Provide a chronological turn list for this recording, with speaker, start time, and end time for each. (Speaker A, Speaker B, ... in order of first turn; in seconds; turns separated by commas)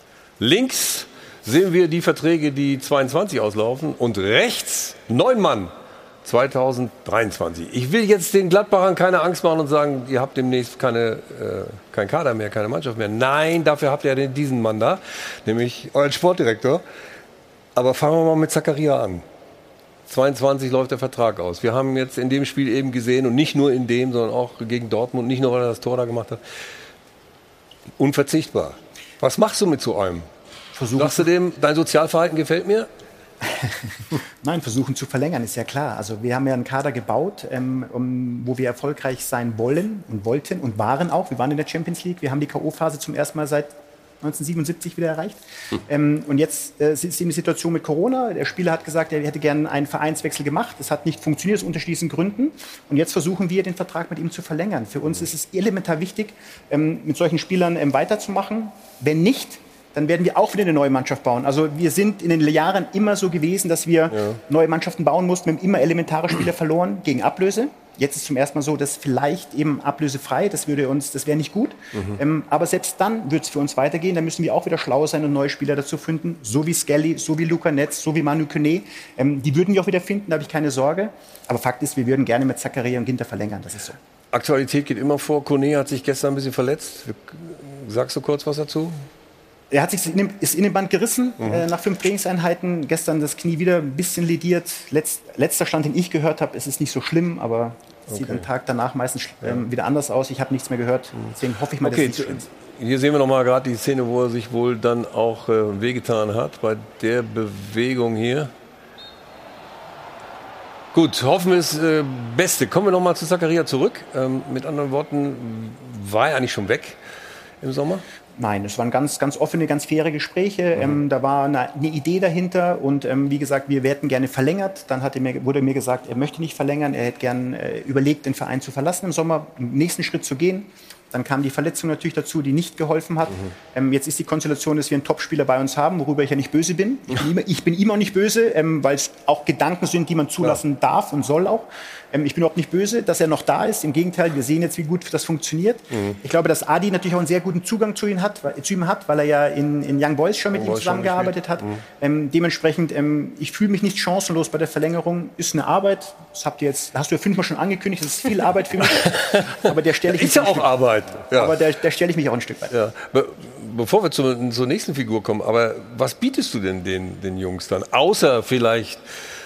Speaker A: 0.4-5.7, Speaker A: 6.2-16.8, Speaker A: 17.8-19.2, Speaker A: 20.1-26.4, Speaker A: 28.0-30.3, Speaker B: 30.8-31.3, Speaker A: 30.9-32.9, Speaker B: 33.4-33.8, Speaker B: 34.4-84.0, Speaker A: 64.1-64.4, Speaker A: 71.9-72.2, Speaker A: 84.3-89.0, Speaker B: 89.7-102.5, Speaker A: 98.1-98.5, Speaker A: 101.2-108.5, Speaker A: 110.9-117.0, Speaker A: 117.6-118.0, Speaker B: 118.4-162.7, Speaker A: 145.9-146.2, Speaker A: 150.5-151.8, Speaker A: 158.9-159.5, Speaker A: 160.1-161.6, Speaker A: 162.7-169.0